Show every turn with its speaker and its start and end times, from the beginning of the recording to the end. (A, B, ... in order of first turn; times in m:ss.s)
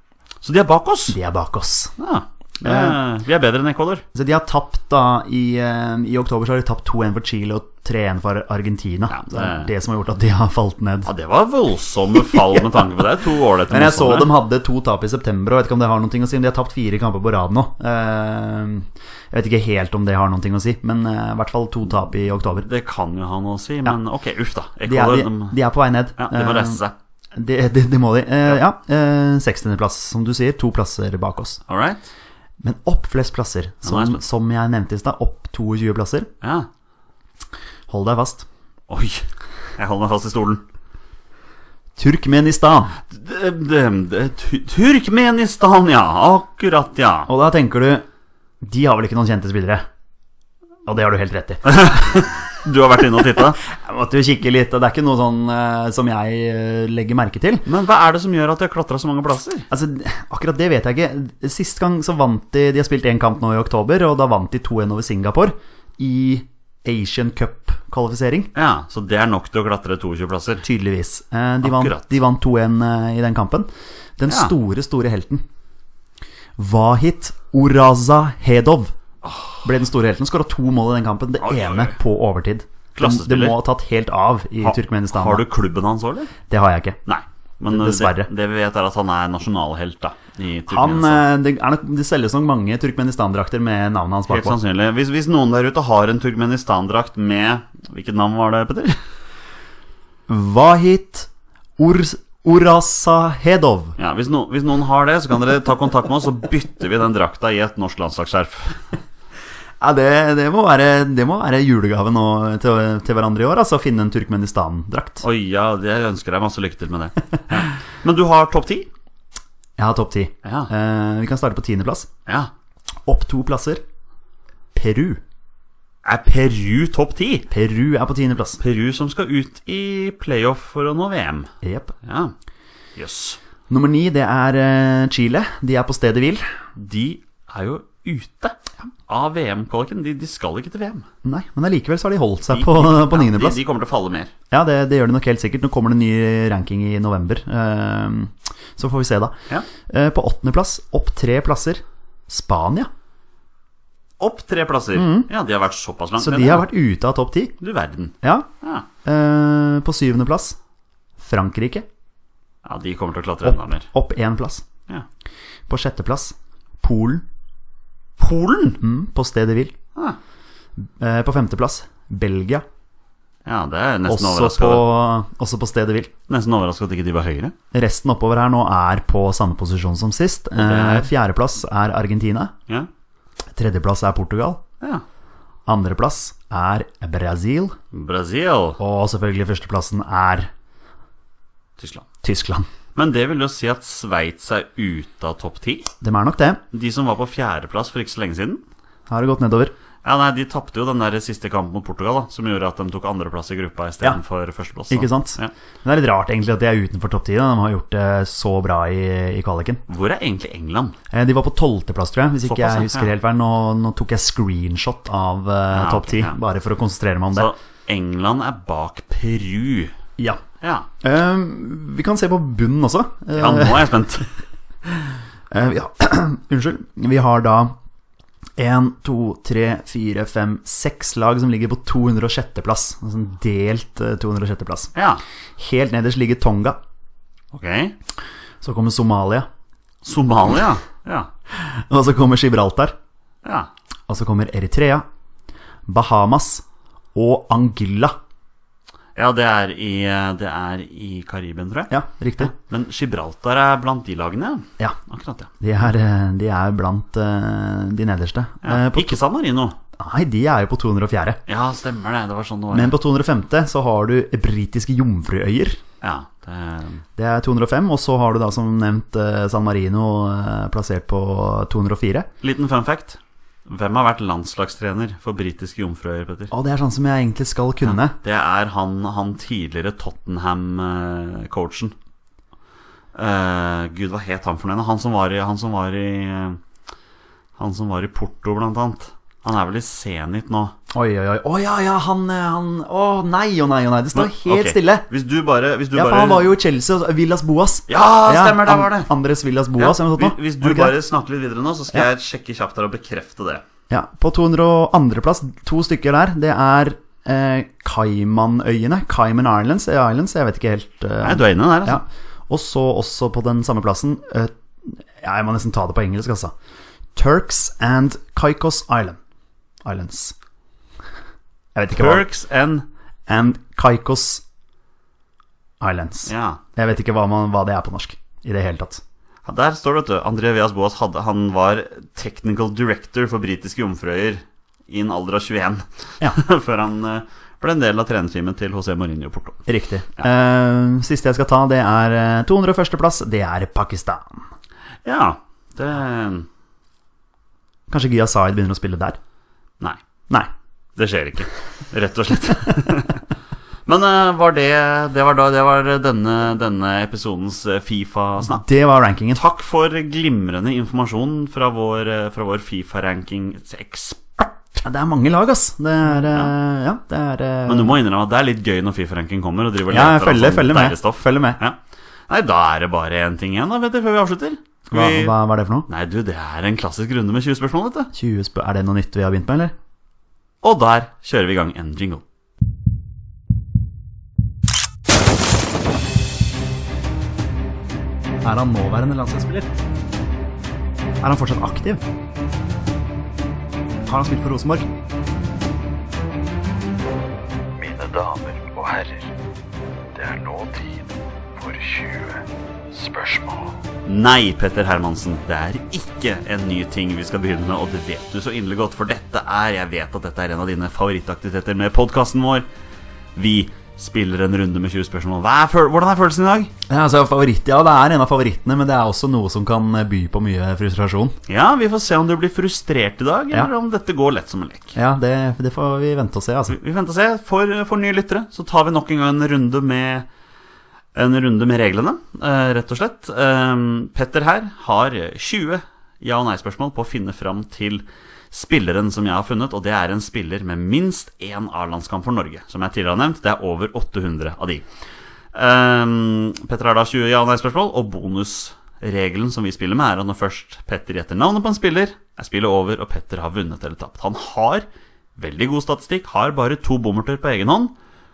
0:00.4-0:01.2 A
0:01.1-0:01.9 B
0:02.0-0:04.0 A
0:02.6-0:03.0 B
0:04.1-0:11.1 B
0:09.1-0:09.7 A
0:11.1-0:14.3 A
0:12.2-0:12.9 B
0:13.7-0:22.7 B
0:22.6-0:25.6 A
0:24.8-0:26.8 B
0:26.2-0:26.9 A
0:27.4-0:31.6 B
0:31.7-0:32.1 A
0:32.6-0:36.3 B
0:33.8-0:34.2 A
0:36.4-0:36.7 A
0:37.9-0:38.5 B
0:38.9-0:39.3 A
0:39.8-0:40.6 A
0:42.0-0:43.0 B
0:43.1-0:47.3 A
0:47.3-0:48.0 B
0:48.6-0:49.9 B
0:50.9-0:52.3 B
0:51.6-0:53.6 A
0:53.4-0:57.7 B
0:57.7-0:59.7 A
0:59.7-1:08.5 B
1:08.6-1:10.6 A
1:10.6-1:15.4 B
1:11.6-1:12.0 A
1:14.3-1:14.5 A
1:16.6-1:18.9 B
1:19.2-1:19.7 A
1:19.6-1:25.5 B
1:21.4-1:22.0 A
1:23.0-1:23.6 A
1:24.6-1:26.3 A
1:26.5-1:27.0 B
1:27.1-1:31.2 A
1:27.7-1:28.3 B
1:30.7-1:34.6 B
1:34.3-1:39.0 A
1:40.3-1:44.0 B
1:44.0-1:48.8 A
1:49.8-1:55.2 B
1:55.2-1:58.9 A
1:59.8-2:02.1 B
2:00.4-2:00.7 A
2:02.3-2:02.5 A
2:03.1-2:03.8 B
2:04.7-2:05.2 B
2:06.0-2:07.5 A
2:07.5-2:08.6 B
2:08.6-2:11.5 A
2:11.6-2:11.9 B
2:12.0-2:12.3 A
2:13.0-2:13.4 A
2:13.7-2:16.4 B
2:16.8-2:21.1 A
2:21.2-2:23.6 B
2:22.5-2:24.3 A
2:24.5-2:32.9 B
2:34.2-2:36.7 A
2:35.0-2:35.3 B
2:36.2-2:37.6 B
2:37.6-2:38.9 A
2:38.2-2:38.5 B
2:39.0-2:40.6 B
2:41.2-2:41.9 B
2:42.6-2:43.9 A
2:43.4-2:44.6 B
2:45.7-2:47.2 B
2:48.2-2:48.8 A
2:48.8-2:49.7 B
2:50.8-2:52.6 B
2:53.4-2:54.9 A
2:54.1-2:56.1 B
2:56.3-2:57.6 A
2:57.7-3:02.5 B
3:00.6-3:01.1 A
3:03.6-3:04.6 B
3:05.7-3:07.8 B
3:07.9-3:08.8 A
3:08.8-3:10.5 B
3:11.8-3:12.1 A
3:12.2-3:12.7 B
3:13.0-3:15.9 A
3:16.0-3:16.6 B
3:16.7-3:18.6 A
3:19.1-3:19.7 B
3:20.0-3:25.5 A
3:24.9-3:29.8 B
3:29.9-3:31.0 A
3:31.1-3:37.5 B
3:32.4-3:33.1 A
3:35.7-3:36.4 A
3:37.3-3:39.9 A
3:40.2-3:40.4 B
3:40.6-3:40.9 A
3:41.0-3:44.0 B
3:43.4-3:44.3 A
3:45.5-3:47.8 B
3:48.6-3:54.9 B
3:55.0-3:55.2 A
3:55.6-3:56.8 B
3:57.5-3:58.0 A
3:58.6-3:59.5 B
4:00.0-4:01.3 A
4:01.6-4:03.0 B
4:03.4-4:03.7 A
4:04.1-4:05.0 B
4:05.9-4:06.6 B
4:07.2-4:08.2 B
4:09.2-4:15.5 A
4:11.9-4:12.5 B
4:15.6-4:19.2 B
4:18.6-4:19.8 A
4:20.0-4:21.4 B
4:21.5-4:23.0 A
4:22.7-4:25.8 B
4:26.0-4:27.0 A
4:27.2-4:32.3 B
4:32.4-4:36.5 A
4:36.5-4:38.2 B
4:37.8-4:42.0 A
4:43.2-4:46.6 A
4:47.6-4:50.8 A
4:50.9-4:55.1 B
4:54.1-4:56.5 A
4:55.9-5:01.0 B
4:57.9-4:59.1 A
4:59.8-5:03.6 A
5:03.9-5:16.5 B
5:11.2-5:12.0 A
5:17.2-5:19.2 B
5:19.8-5:20.4 B
5:21.8-5:22.3 B
5:21.9-5:22.9 A
5:23.3-5:24.4 B
5:25.8-5:29.0 B
5:26.3-5:26.6 A
5:29.4-5:39.6 A
5:39.7-5:44.4 B
5:45.0-5:46.5 A
5:47.9-5:49.2 B
5:51.0-5:53.2 A
5:53.9-5:58.6 A
5:58.4-5:59.4 B
5:59.4-6:04.5 A
6:04.8-6:08.0 B
6:07.7-6:11.8 A
6:09.9-6:11.6 B
6:12.3-6:15.3 A
6:14.9-6:15.9 B
6:15.9-6:18.1 A
6:18.1-6:19.7 B
6:20.6-6:22.2 A
6:28.4-6:29.7 B
6:31.2-6:32.0 B
6:34.1-6:34.9 B
6:37.8-6:39.3 C
6:40.1-6:43.8 C
6:44.1-6:52.7 A
6:53.4-6:56.7 A
6:56.9-7:01.4 B
7:01.5-7:05.0 A
7:05.0-7:06.8 B
7:06.7-7:10.3 A
7:11.2-7:24.8 A
7:25.5-7:38.0 A